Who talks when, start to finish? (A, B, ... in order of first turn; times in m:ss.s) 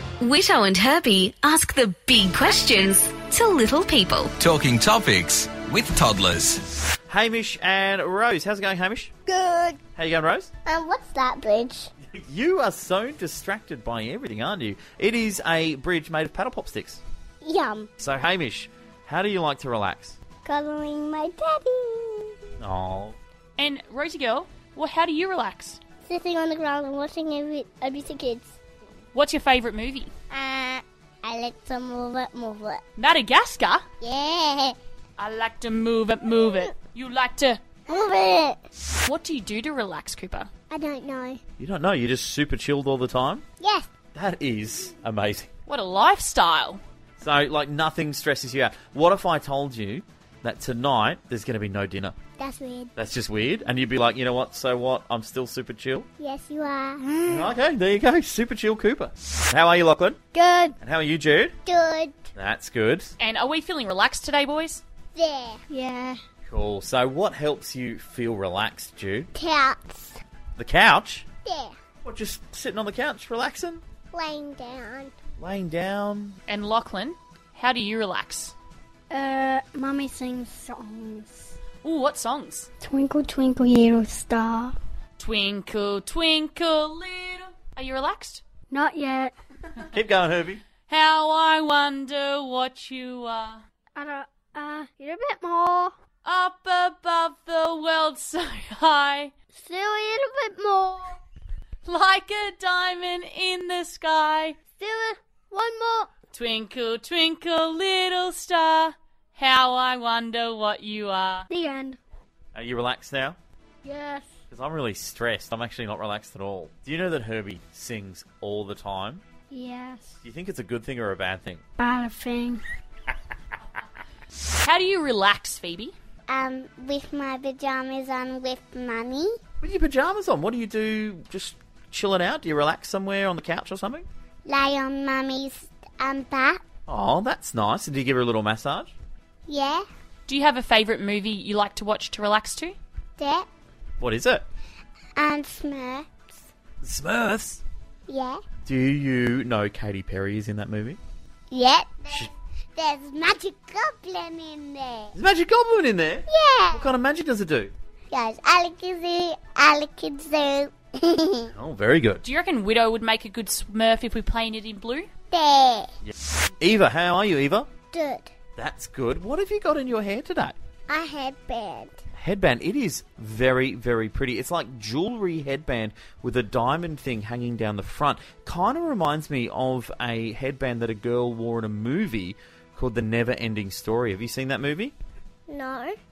0:00.2-0:04.3 A
0:04.4-0:06.6 B
0:07.1-0:09.1 C
0:09.3-0:09.8 D
0:10.0-0:10.5 C
0:10.7-0:11.9 D
0:12.1-0:17.0 C
0:17.4-0:17.9 D
0:18.0-0:20.2 C
0:20.4-0:22.4 D
0:22.6-0:23.2 C
0:23.6-0:25.8 E
0:26.0-0:28.5 D
0:29.1-0:30.1 E
0:30.3-0:32.8 D
0:33.0-0:33.8 E
0:34.0-0:34.8 D
0:35.2-0:37.6 E
0:37.9-0:38.6 D
0:39.0-0:40.5 E
0:40.7-0:41.4 D
0:41.6-0:43.4 C
0:43.6-0:43.9 D
0:44.1-0:45.5 C
0:45.7-0:46.8 E
0:47.2-0:52.2 C
0:52.4-0:52.9 D
0:53.0-0:56.1 C
0:56.2-0:57.5 D
0:57.3-1:00.2 C
1:00.3-1:00.8 F
1:00.8-1:01.6 C
1:01.7-1:02.2 D
1:02.4-1:03.1 C
1:03.2-1:04.8 E
1:05.2-1:05.6 D
1:05.7-1:06.2 F
1:06.5-1:09.3 C
1:09.4-1:10.2 D
1:10.6-1:11.3 C
1:11.4-1:11.8 D
1:12.0-1:13.8 C
1:14.1-1:15.1 D
1:15.4-1:16.4 C
1:16.5-1:18.5 E
1:19.1-1:21.6 F
1:21.8-1:22.7 E
1:22.8-1:24.8 F
1:25.2-1:28.4 E
1:28.7-1:29.3 F
1:29.9-1:30.6 C
1:30.9-1:33.6 E
1:34.0-1:36.0 F
1:36.2-1:39.3 E
1:39.6-1:41.2 F
1:41.8-1:44.6 E
1:44.8-1:46.1 F
1:46.3-1:51.5 E
1:51.5-1:52.0 F
1:52.5-1:53.4 C
1:53.8-1:54.3 F
1:54.5-1:59.2 C
1:59.5-2:00.2 F
2:00.2-2:01.6 C
2:01.8-2:02.6 F
2:04.6-2:06.0 E
2:06.3-2:09.4 D
2:09.6-2:14.1 C
2:14.4-2:16.6 D
2:16.9-2:18.9 C
2:19.5-2:19.9 D
2:20.3-2:22.8 E
2:23.2-2:23.5 D
2:24.0-2:24.4 C
2:25.2-2:26.4 D
2:26.8-2:27.6 C
2:28.1-2:28.4 D
2:28.6-2:31.0 C
2:31.5-2:35.1 D
2:35.1-2:37.7 C
2:36.3-2:36.9 D
2:38.1-2:41.5 D
2:41.5-2:42.2 C
2:42.2-2:45.1 E
2:45.3-2:45.9 D
2:46.0-2:47.7 C
2:47.9-2:48.3 D
2:48.6-2:50.6 C
2:50.9-2:52.0 D
2:52.2-3:04.9 C
3:05.5-3:06.0 D